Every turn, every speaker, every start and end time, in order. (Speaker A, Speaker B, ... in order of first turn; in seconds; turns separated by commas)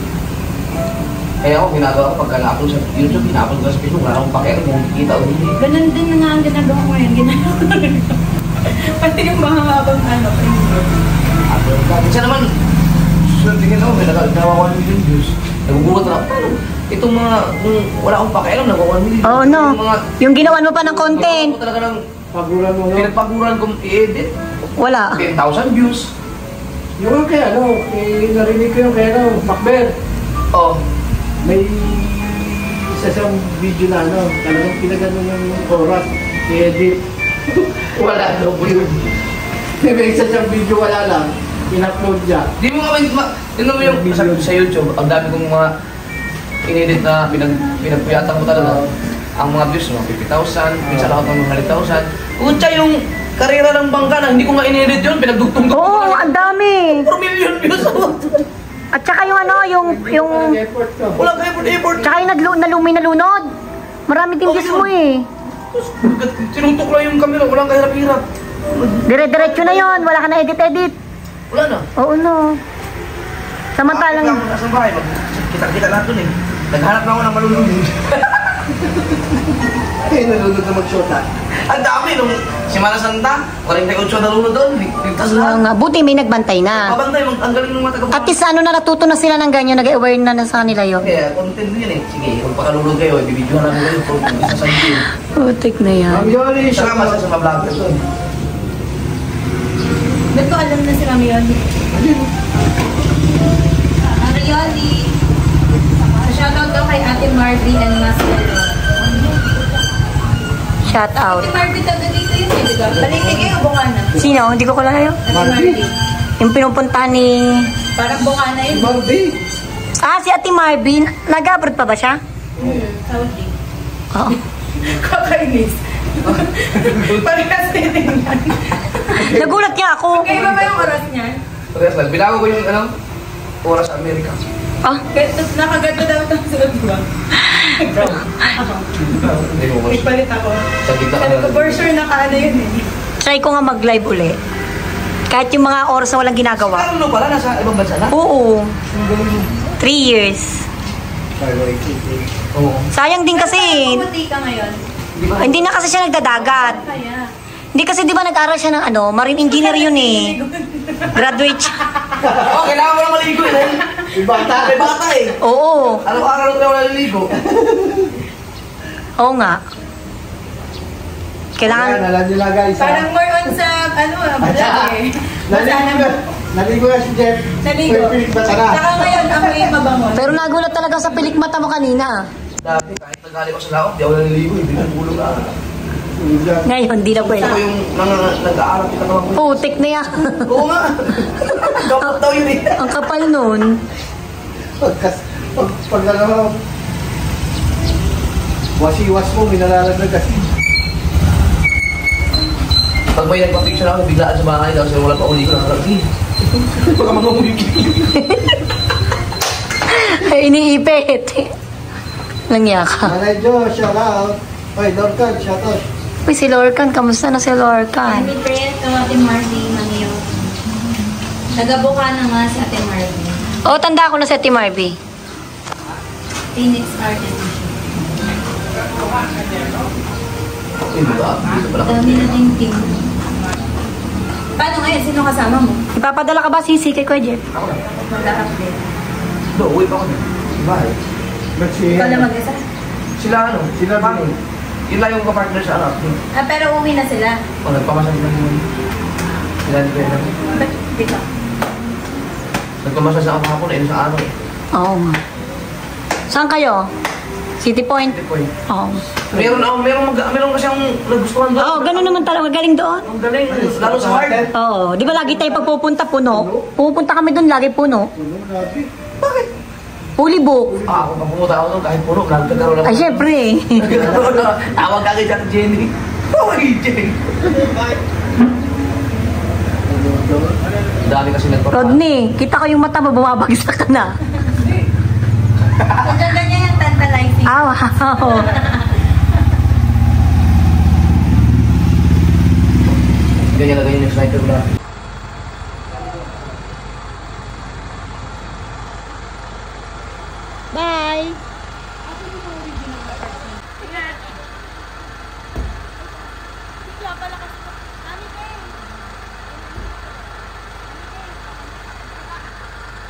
Speaker A: 1.4-5.5, Speaker B: 5.6-10.9, Speaker A: 11.5-12.4, Speaker A: 13.3-22.0, Speaker C: 19.2-21.6, Speaker D: 22.3-23.1, Speaker A: 22.9-24.3, Speaker C: 24.8-25.2, Speaker A: 25.1-26.1, Speaker D: 27.0-29.9, Speaker A: 30.5-30.8, Speaker D: 31.4-37.0, Speaker A: 37.5-39.0, Speaker D: 39.8-42.5, Speaker A: 42.6-45.7, Speaker D: 43.8-44.5, Speaker A: 46.6-48.8, Speaker D: 48.5-48.9, Speaker A: 49.4-58.4, Speaker D: 50.8-51.4, Speaker C: 55.7-57.1, Speaker C: 58.9-60.6, Speaker D: 59.7-61.2, Speaker A: 61.1-62.1, Speaker C: 62.0-63.5, Speaker C: 64.1-65.3, Speaker A: 64.4-64.9, Speaker A: 65.7-70.0, Speaker C: 69.0-70.9, Speaker A: 71.5-71.8, Speaker C: 72.0-72.6, Speaker C: 73.8-74.4, Speaker A: 73.9-78.8, Speaker D: 80.0-81.2, Speaker A: 81.7-85.6, Speaker C: 85.2-86.9, Speaker A: 86.7-88.4, Speaker C: 88.1-91.1, Speaker A: 91.0-95.1, Speaker C: 95.2-96.3, Speaker D: 96.1-97.9, Speaker A: 96.7-98.0, Speaker B: 100.3-101.6, Speaker D: 101.9-102.3, Speaker B: 104.1-105.1, Speaker B: 106.2-108.8, Speaker C: 110.8-111.5, Speaker B: 111.2-114.2, Speaker D: 113.0-113.5, Speaker C: 114.2-115.2, Speaker B: 115.2-115.9, Speaker D: 115.3-115.8, Speaker C: 116.4-117.7, Speaker B: 118.0-119.0, Speaker D: 118.7-119.4, Speaker C: 120.0-122.2, Speaker D: 122.6-122.8, Speaker B: 122.6-123.5, Speaker C: 124.1-124.4, Speaker B: 124.7-129.3, Speaker A: 126.2-127.3, Speaker D: 129.1-129.6, Speaker C: 129.1-130.5, Speaker B: 130.1-131.4, Speaker A: 130.4-130.9, Speaker A: 131.7-132.9, Speaker A: 133.6-134.4, Speaker B: 135.1-139.2, Speaker A: 139.1-140.2, Speaker B: 139.9-142.8, Speaker A: 140.8-141.8, Speaker C: 143.2-144.4, Speaker C: 145.3-146.9, Speaker A: 146.5-148.2, Speaker C: 148.1-148.7, Speaker D: 148.9-149.5, Speaker C: 149.8-150.6, Speaker D: 151.4-152.3, Speaker A: 152.5-152.9, Speaker C: 152.9-154.1, Speaker B: 153.3-154.8, Speaker A: 155.1-155.8, Speaker C: 155.4-156.8, Speaker B: 156.5-157.3, Speaker C: 157.7-160.3, Speaker B: 159.5-161.3, Speaker C: 161.1-161.8, Speaker D: 162.2-162.6, Speaker A: 162.4-165.4, Speaker B: 163.5-163.8, Speaker D: 164.1-164.9, Speaker C: 165.4-166.0, Speaker A: 166.0-167.3, Speaker D: 167.3-168.1, Speaker C: 169.2-169.6, Speaker C: 171.6-172.0, Speaker D: 171.6-173.1, Speaker B: 172.8-176.1, Speaker D: 174.4-174.9, Speaker D: 175.5-178.9, Speaker B: 177.6-180.4, Speaker C: 180.1-182.2, Speaker A: 182.6-185.5, Speaker D: 186.2-186.7, Speaker C: 186.7-187.6, Speaker A: 187.1-189.7, Speaker C: 189.3-190.6, Speaker A: 190.2-193.0, Speaker C: 191.4-192.2, Speaker C: 192.7-193.8, Speaker D: 194.8-196.6, Speaker D: 198.8-200.5, Speaker A: 203.1-208.2, Speaker C: 208.1-208.6, Speaker C: 209.9-211.5, Speaker C: 212.5-213.2, Speaker D: 213.0-215.8, Speaker C: 216.2-218.3, Speaker B: 218.1-220.2, Speaker B: 221.5-223.4, Speaker C: 223.7-225.0, Speaker B: 226.5-227.8, Speaker A: 230.9-232.4, Speaker B: 231.8-233.1, Speaker B: 234.6-235.8, Speaker C: 235.9-237.4, Speaker A: 237.5-237.9, Speaker B: 237.9-238.8, Speaker A: 239.5-240.9, Speaker D: 241.6-242.3, Speaker B: 241.9-242.6, Speaker A: 243.2-244.3, Speaker D: 243.7-244.3, Speaker A: 244.9-246.2, Speaker B: 246.3-247.4, Speaker A: 247.6-248.6, Speaker A: 249.6-250.4, Speaker B: 250.4-251.2, Speaker A: 252.8-254.3, Speaker C: 254.8-255.2, Speaker C: 256.3-256.9, Speaker C: 257.6-258.1, Speaker A: 258.1-258.5, Speaker C: 258.7-259.0, Speaker D: 259.3-259.7, Speaker A: 259.3-262.2, Speaker C: 261.6-263.1, Speaker A: 263.1-264.5, Speaker D: 263.5-265.7, Speaker C: 264.5-268.1, Speaker D: 266.3-266.7, Speaker D: 268.1-268.9, Speaker A: 269.2-269.5, Speaker C: 270.2-270.8, Speaker D: 270.7-271.1, Speaker A: 270.9-277.4, Speaker C: 272.8-274.2, Speaker D: 273.9-274.4, Speaker D: 277.4-277.9, Speaker D: 279.9-280.5, Speaker A: 281.0-282.0, Speaker C: 281.7-284.1, Speaker B: 284.4-284.8, Speaker A: 285.6-286.3, Speaker B: 286.0-287.6, Speaker C: 287.5-288.6, Speaker B: 288.3-289.0, Speaker A: 293.4-294.7, Speaker C: 300.7-301.4, Speaker B: 302.6-303.1, Speaker B: 303.7-304.2, Speaker B: 306.8-308.8, Speaker B: 311.1-311.4